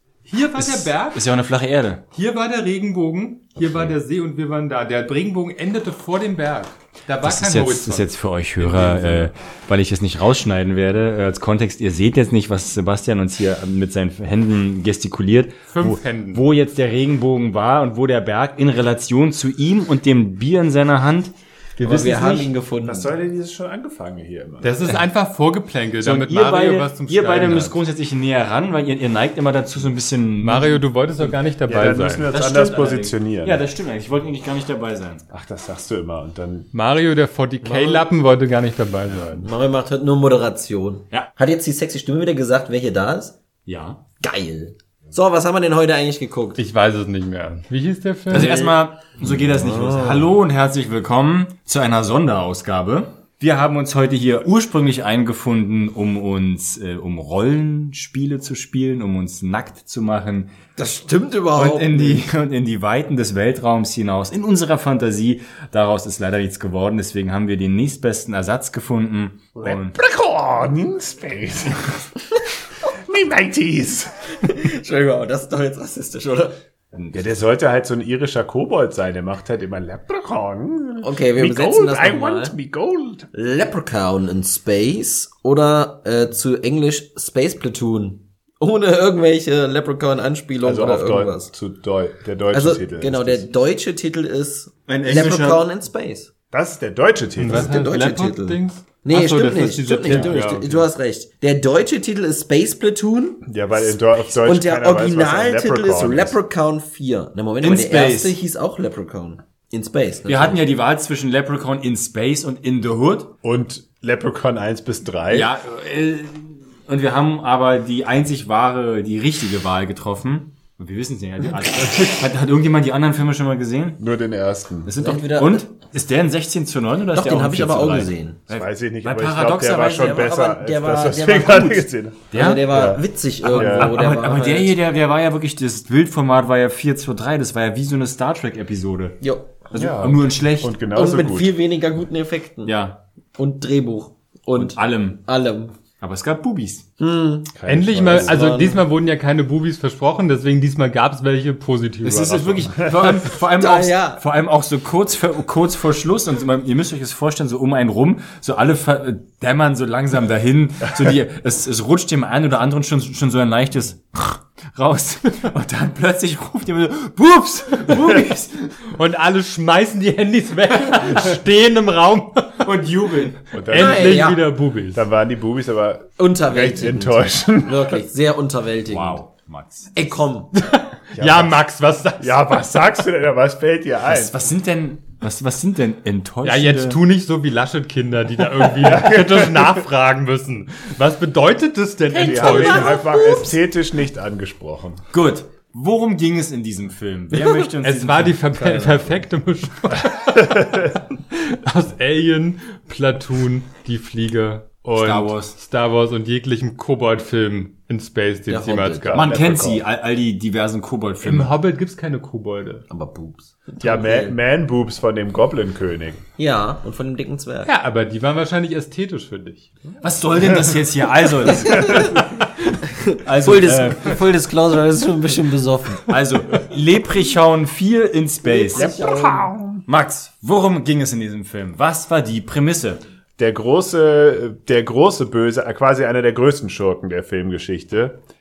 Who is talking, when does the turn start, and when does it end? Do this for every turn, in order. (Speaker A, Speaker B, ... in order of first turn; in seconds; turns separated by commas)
Speaker A: 0.3-1.3, Speaker B: 0.6-2.0, Speaker A: 2.1-9.3, Speaker B: 7.2-22.5, Speaker A: 15.7-16.4, Speaker C: 21.8-23.1, Speaker D: 22.8-24.7, Speaker A: 24.6-27.8, Speaker B: 26.0-30.8, Speaker A: 30.4-32.3, Speaker D: 31.7-33.6, Speaker B: 32.3-35.2, Speaker D: 35.3-36.7, Speaker A: 36.7-39.4, Speaker C: 37.6-38.1, Speaker C: 39.4-43.4, Speaker B: 43.6-44.0, Speaker C: 44.2-46.6, Speaker A: 46.6-48.7, Speaker B: 48.3-60.5, Speaker C: 49.7-50.2, Speaker C: 60.8-62.3, Speaker B: 61.5-69.9, Speaker D: 69.6-72.1, Speaker D: 72.9-74.1, Speaker C: 74.4-76.6, Speaker D: 77.1-83.3, Speaker C: 81.0-82.5, Speaker C: 83.3-91.5, Speaker D: 90.6-93.5, Speaker C: 92.5-96.3, Speaker B: 94.9-95.6, Speaker D: 96.5-97.7, Speaker A: 97.4-100.9, Speaker C: 97.5-103.4, Speaker D: 103.5-106.3, Speaker C: 104.3-110.6, Speaker B: 107.6-108.4, Speaker B: 110.2-113.3, Speaker D: 113.4-115.5, Speaker B: 115.3-124.0, Speaker D: 124.0-124.9, Speaker B: 124.8-130.1, Speaker C: 125.0-125.7, Speaker C: 127.1-128.4, Speaker D: 128.5-134.0, Speaker C: 129.8-134.7, Speaker B: 132.3-132.8, Speaker B: 133.4-139.2, Speaker C: 139.2-139.6, Speaker B: 139.7-140.8, Speaker D: 139.7-141.5, Speaker C: 140.9-142.7, Speaker B: 142.6-143.0, Speaker C: 143.3-145.7, Speaker B: 144.6-145.2, Speaker B: 146.0-146.8, Speaker C: 147.0-147.5, Speaker D: 147.5-148.5, Speaker A: 147.7-152.7, Speaker C: 148.1-148.8, Speaker B: 152.0-168.8, Speaker D: 152.8-153.2, Speaker C: 152.8-154.2, Speaker A: 168.9-175.0, Speaker B: 172.6-173.4, Speaker D: 173.5-174.4, Speaker C: 173.7-174.4, Speaker D: 174.9-178.0, Speaker C: 176.2-179.2, Speaker B: 178.9-179.9, Speaker C: 179.9-180.5, Speaker A: 180.6-182.4, Speaker D: 181.1-181.6, Speaker D: 182.2-184.3, Speaker B: 184.0-187.0, Speaker A: 186.4-193.0, Speaker D: 188.8-189.8, Speaker D: 192.1-195.0, Speaker C: 192.2-193.5, Speaker B: 195.1-198.4, Speaker A: 197.6-209.3, Speaker C: 198.5-199.2, Speaker D: 200.4-200.9, Speaker B: 204.9-205.5, Speaker C: 208.5-209.2, Speaker D: 209.1-209.8, Speaker B: 209.1-211.5, Speaker A: 211.2-212.8, Speaker C: 212.9-214.4, Speaker D: 213.8-216.2, Speaker C: 216.4-217.7, Speaker A: 217.7-219.7, Speaker B: 220.0-222.4, Speaker C: 221.5-222.3, Speaker C: 222.8-226.1, Speaker B: 223.2-224.2, Speaker B: 226.1-228.9, Speaker C: 228.4-229.5, Speaker D: 228.7-229.8, Speaker B: 229.9-233.0, Speaker D: 233.4-238.2